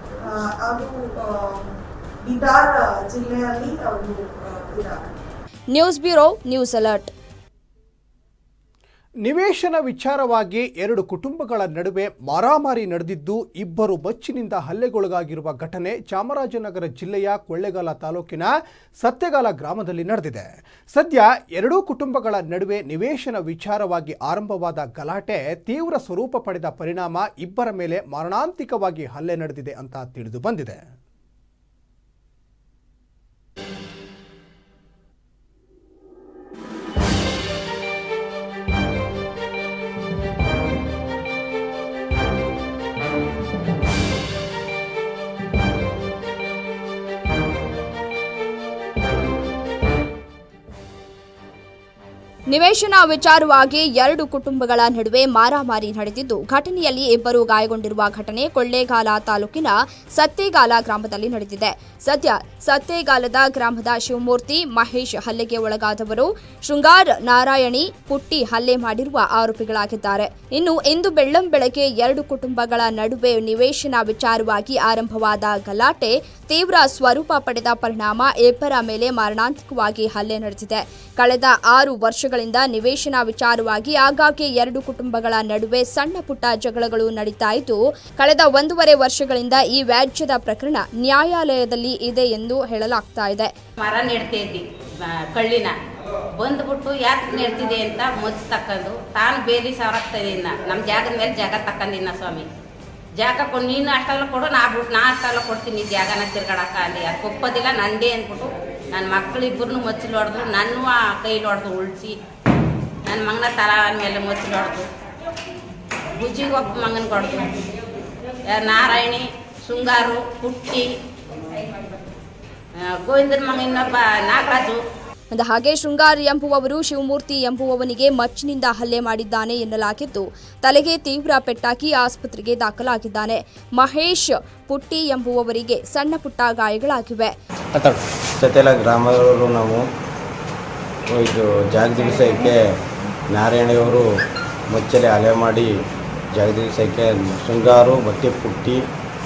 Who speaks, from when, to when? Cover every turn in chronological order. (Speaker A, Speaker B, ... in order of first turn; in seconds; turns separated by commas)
Speaker A: 0.2-5.2, Speaker B: 5.7-7.1, Speaker C: 9.2-30.8, Speaker B: 52.5-93.5, Speaker D: 93.8-94.7, Speaker D: 95.3-95.7, Speaker D: 96.4-102.5, Speaker D: 103.2-112.2, Speaker D: 113.1-114.9, Speaker D: 116.1-117.7, Speaker D: 118.5-120.9, Speaker D: 123.0-124.8, Speaker B: 125.3-137.3, Speaker E: 138.4-139.8, Speaker E: 141.1-142.6, Speaker E: 143.3-144.0, Speaker E: 144.7-145.7, Speaker E: 146.3-148.8